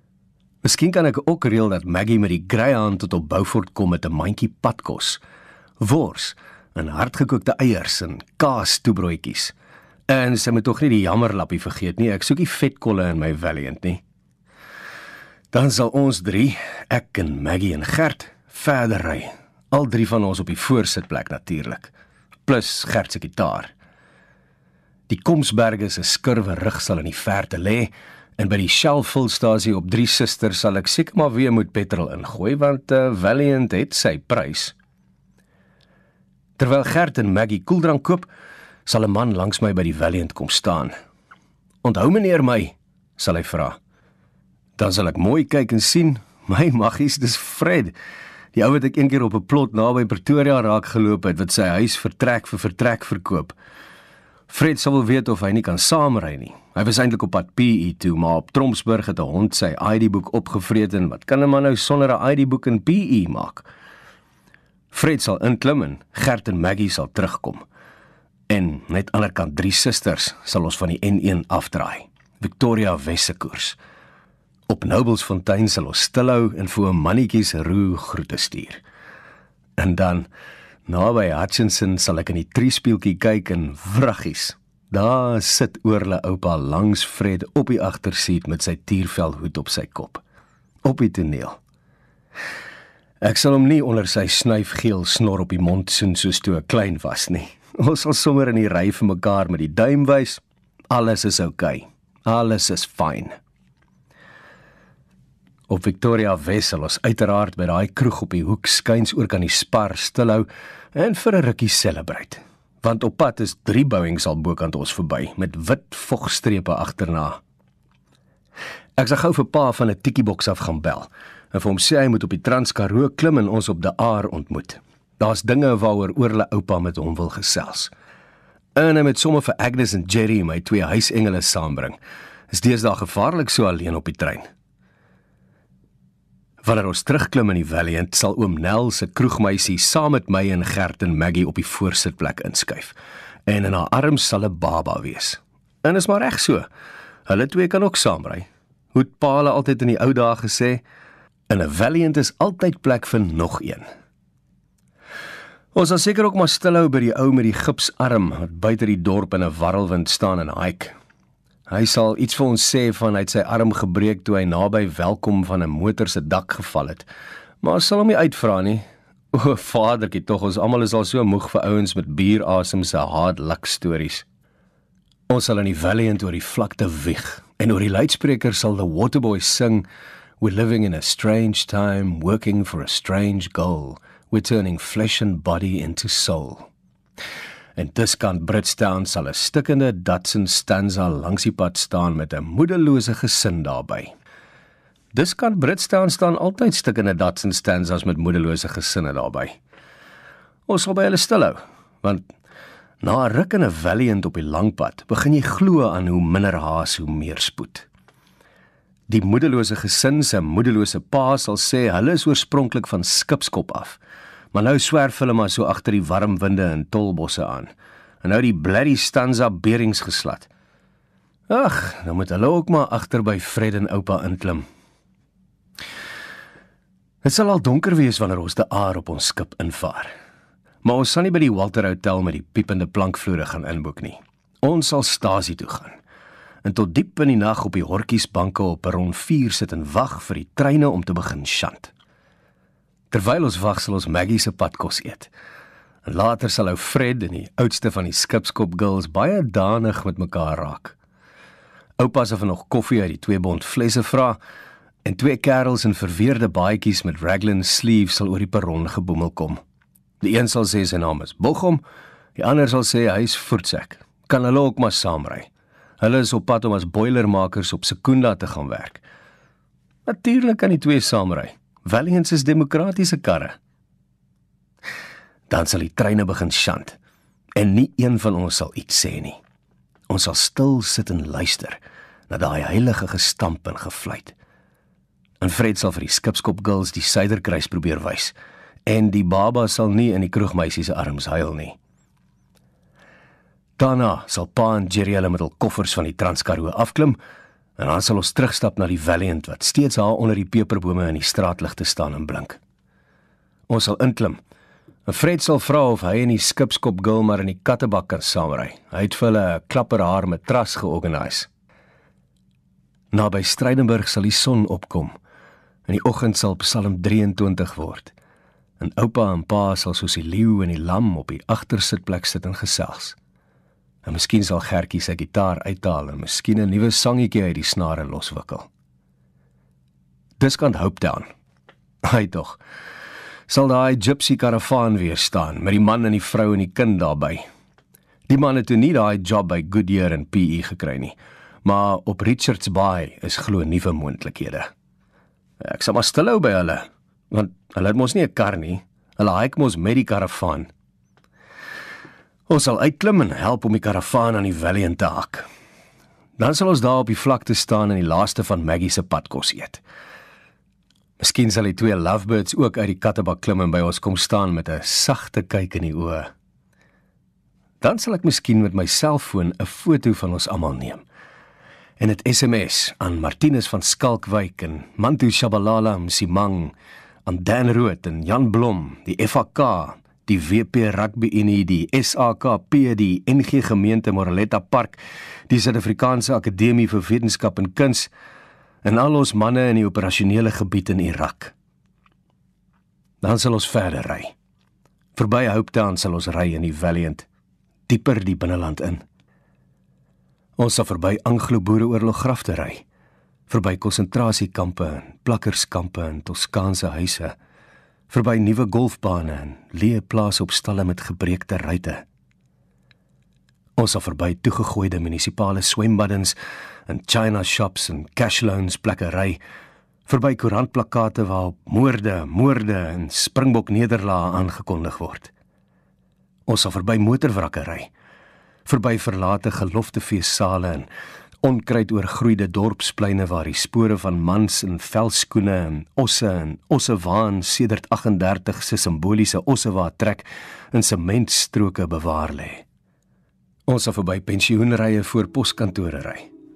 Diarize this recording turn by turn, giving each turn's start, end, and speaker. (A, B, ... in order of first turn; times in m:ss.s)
0:00.6-0:05.2 A
0:05.8-0:09.5 A
0:10.1-0:14.0 A
0:15.5-0:21.9 A
0:22.5-0:23.7 A
0:25.1-0:34.7 A
0:36.6-0:38.3 A
0:38.8-0:40.9 A
0:41.8-0:43.8 A
0:44.8-0:47.9 A
0:48.5-0:53.5 A
0:54.5-1:03.7 A
1:04.9-1:07.6 A
1:08.5-1:13.8 A
1:14.7-1:18.8 A
1:19.8-1:20.3 A
1:20.8-1:30.2 A
1:30.8-1:31.6 A
1:33.2-1:43.3 A
1:45.7-1:57.4 A
1:59.0-2:07.9 A
2:08.8-2:12.0 A
2:12.5-2:14.4 A
2:16.6-2:22.9 A
2:23.5-2:26.6 A
2:27.2-2:30.8 A
2:31.5-2:33.8 A
2:35.7-2:40.9 A
2:41.7-2:47.1 A
2:47.6-2:54.2 A
2:55.3-2:59.9 A
3:00.4-3:06.7 A
3:07.8-3:14.1 A
3:15.1-3:19.6 A
3:20.7-3:22.3 A
3:23.0-3:27.9 A
3:29.1-3:34.0 A
3:34.5-3:37.7 A
3:38.2-3:40.5 A
3:41.5-3:44.6 A
3:47.2-3:50.1 A
3:50.8-3:56.0 A
3:56.6-4:01.9 A
4:03.1-4:05.3 A
4:06.0-4:11.0 A
4:12.0-4:14.4 A
4:15.0-4:19.6 A
4:20.2-4:21.8 A
4:22.4-4:25.5 A
4:26.0-4:29.0 A
4:30.0-4:33.5 A
4:35.5-4:37.0 A
4:37.6-4:39.4 A
4:40.1-4:44.3 A
4:45.4-4:48.3 A
4:48.8-4:51.8 A
4:53.8-4:57.2 A
4:57.8-5:02.6 A
5:03.7-5:04.4 A
5:05.1-5:11.5 A
5:13.1-5:15.1 A
5:15.9-5:18.1 A
5:18.8-5:23.2 A
5:24.0-5:28.7 A
5:30.4-5:31.2 A
5:32.0-5:32.6 A
5:33.5-5:37.4 A
5:38.3-5:44.7 A
5:45.6-5:50.7 A
5:52.5-5:55.5 A
5:56.4-5:59.8 A
6:01.2-6:06.3 A
6:07.8-6:11.0 A
6:12.0-6:16.7 A
6:17.2-6:28.1 A
6:28.8-6:31.5 A
6:33.2-6:34.3 A
6:35.2-6:37.3 A
6:37.9-6:39.0 A
6:40.6-6:42.8 A
6:43.5-6:47.3 A
6:48.1-6:52.0 A
6:53.8-6:59.4 A
7:00.0-7:05.3 A
7:06.5-7:07.9 A
7:08.6-7:10.9 A
7:11.4-7:22.6 A
7:23.7-7:26.3 A